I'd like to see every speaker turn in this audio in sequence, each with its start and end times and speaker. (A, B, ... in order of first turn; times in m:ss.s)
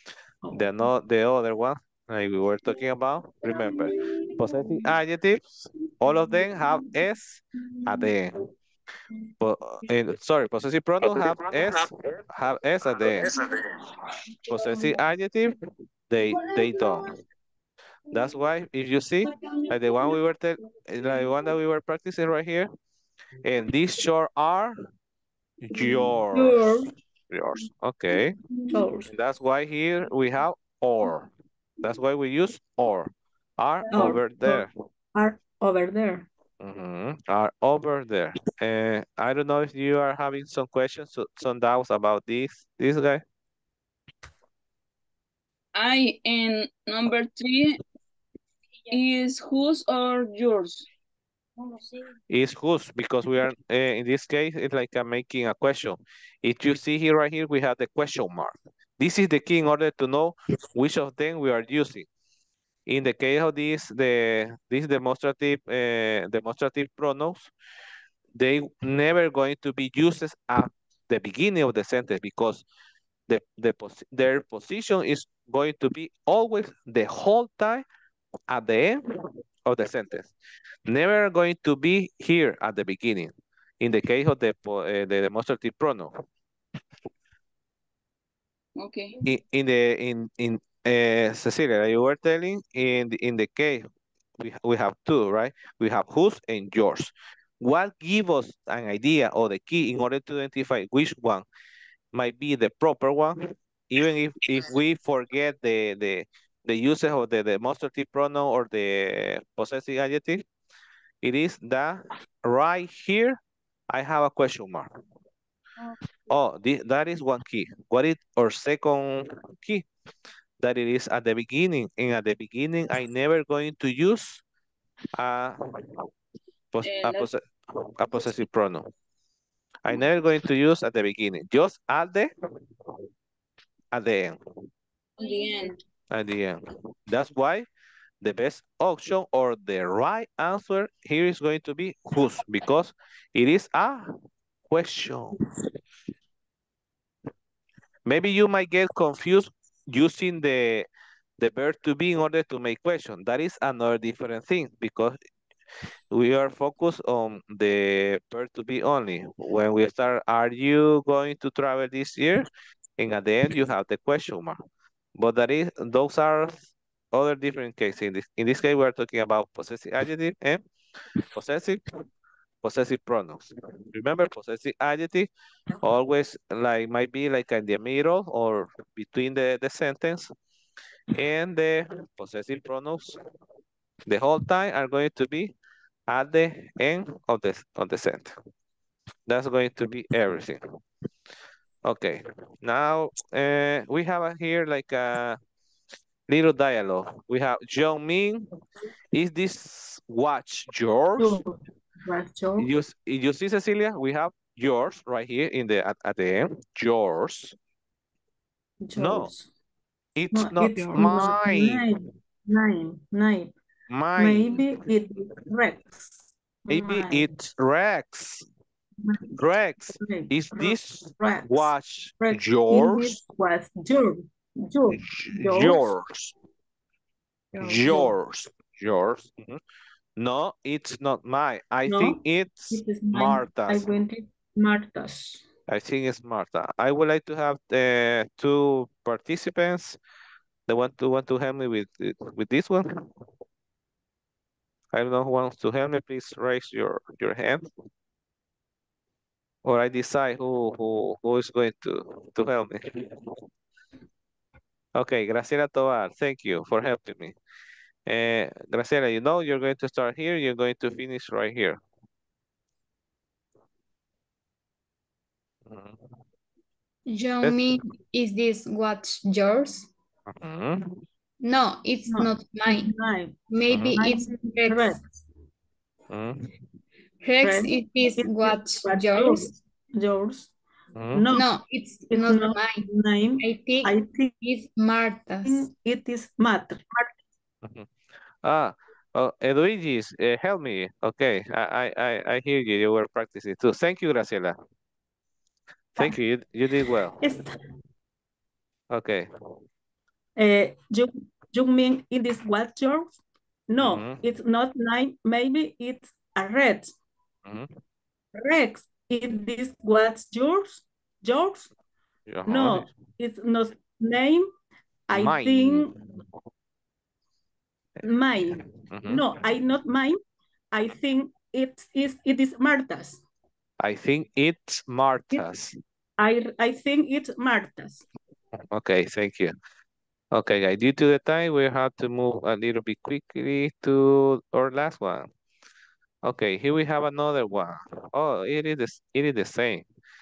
0:00.5-0:08.4 A
0:09.4-0:13.3 A
0:14.5-0:15.6 A
0:16.1-0:17.1 A
0:18.1-0:22.7 A
0:23.4-0:24.8 A
0:25.6-0:26.7 A
0:25.8-0:26.9 B
0:27.3-0:28.4 A
0:28.7-0:29.1 B
0:29.1-0:31.3 A
0:31.8-0:34.7 A
0:33.9-0:36.3 B
0:36.6-0:43.2 A
0:45.8-0:47.8 C
0:48.9-0:50.9 C
0:52.3-1:02.1 A
1:02.9-1:07.5 A
1:08.4-1:12.6 A
1:13.3-1:17.8 A
1:18.5-1:19.0 A
1:19.7-1:20.3 A
1:20.9-1:26.1 A
1:28.8-1:29.2 C
1:29.2-1:33.9 A
1:34.4-1:41.4 A
1:42.1-1:50.4 A
1:51.2-1:53.4 A
1:53.9-1:54.9 A
1:56.3-1:59.8 A
2:00.6-2:04.4 A
2:05.2-2:05.6 A
2:06.7-2:07.4 A
2:06.8-2:07.3 C
2:08.0-2:08.9 A
2:09.8-2:12.3 A
2:13.9-2:14.4 A
2:15.2-2:15.8 C
2:16.1-2:17.7 A
2:18.2-2:24.1 A
2:24.7-2:25.4 A
2:28.1-2:30.9 A
2:31.4-2:35.2 A
2:36.1-2:42.5 A
2:43.0-2:44.6 A
2:45.2-2:50.6 A
2:51.3-2:51.8 A
2:52.6-2:55.3 A
2:55.8-3:00.3 A
3:01.1-3:03.2 A
3:04.1-3:05.5 A
3:06.1-3:08.4 A
3:09.3-3:10.6 A
3:11.8-3:15.4 A
3:16.3-3:18.5 A
3:19.1-3:21.4 A
3:21.2-3:22.7 B
3:22.6-3:27.6 A
3:28.8-3:29.5 B
3:29.0-3:29.3 A
3:30.2-3:31.9 A
3:30.3-3:33.5 B
3:33.9-3:34.8 A
3:34.2-3:37.5 B
3:36.7-3:38.4 A
3:39.4-3:43.2 A
3:40.0-3:45.9 B
3:44.9-3:46.3 A
3:47.6-3:48.1 B
3:47.6-3:49.6 A
3:50.2-3:53.9 A
3:51.9-3:55.4 B
3:55.7-4:00.0 A
4:00.7-4:03.1 A
4:04.9-4:07.7 A
4:09.6-4:13.2 A
4:15.0-4:17.4 A
4:18.1-4:21.8 A
4:25.7-4:26.0 A
4:27.1-4:29.9 D
4:30.3-4:31.0 A
4:31.4-4:33.0 D
4:32.1-4:33.4 B
4:33.5-4:35.0 D
4:33.7-4:34.0 A
4:34.0-4:35.0 B
4:36.1-4:36.5 A
4:37.2-4:39.5 D
4:37.4-4:40.5 B
4:41.0-4:41.2 A
4:41.1-4:41.5 B
4:41.3-4:42.9 D
4:42.1-4:44.3 B
4:43.4-4:45.7 D
4:45.4-4:47.1 B
4:47.6-4:47.9 A
4:48.4-4:54.6 A
4:56.0-4:57.2 A
4:57.2-4:57.5 B
4:58.9-4:59.3 A
5:00.4-5:03.2 B
5:03.7-5:06.9 B
5:03.8-5:04.2 A
5:07.4-5:07.7 A
5:08.4-5:11.7 B
5:12.3-5:12.9 A
5:12.5-5:14.5 B
5:15.1-5:15.9 B
5:15.1-5:16.0 A
5:18.0-5:20.2 B
5:18.8-5:19.2 A
5:20.7-5:23.2 B
5:23.8-5:25.7 A
5:26.2-5:28.0 B
5:28.6-5:29.5 A
5:30.3-5:35.3 A
5:36.2-5:39.9 A